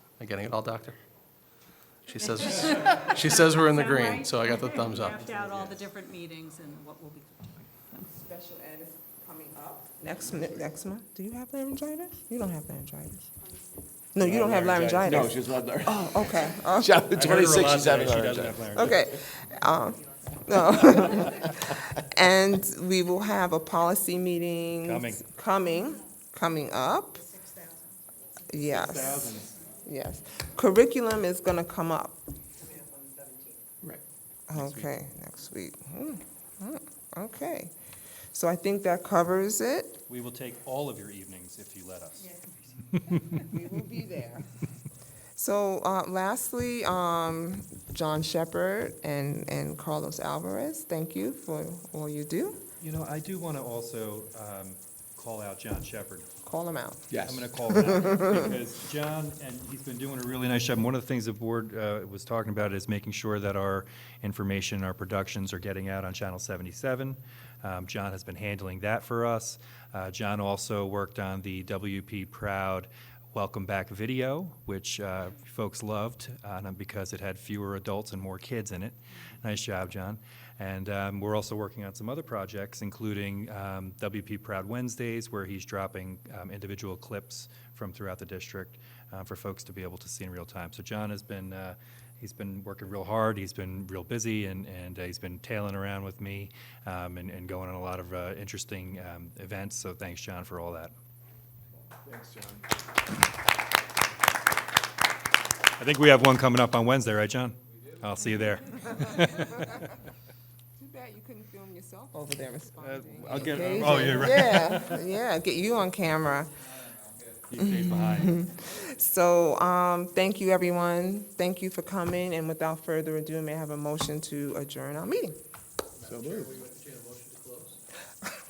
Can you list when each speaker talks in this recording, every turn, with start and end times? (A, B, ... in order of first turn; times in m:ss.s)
0:00.2-0:01.0 A
0:02.1-0:05.3 A
0:02.6-0:08.1 B
0:05.2-0:05.5 C
0:08.1-0:13.3 D
0:14.1-0:17.3 D
0:14.2-0:19.0 C
0:17.1-0:19.0 E
0:18.8-0:27.3 D
0:24.8-0:25.3 E
0:28.5-0:32.2 D
0:28.8-0:29.4 E
0:34.5-0:37.7 D
0:38.3-0:40.0 D
0:40.1-0:42.3 E
0:43.3-0:44.5 D
0:45.4-0:52.6 D
0:52.8-0:56.3 E
0:56.4-0:57.1 D
0:57.1-0:57.7 C
0:57.2-1:40.9 E
0:57.9-0:58.5 D
1:42.1-1:42.6 C
1:45.8-1:49.7 E
1:49.4-1:49.9 D
1:50.8-1:56.5 D
1:52.8-1:55.0 E
1:57.5-1:58.4 E
1:57.6-2:05.4 D
2:06.0-2:07.8 A
2:06.1-2:06.6 C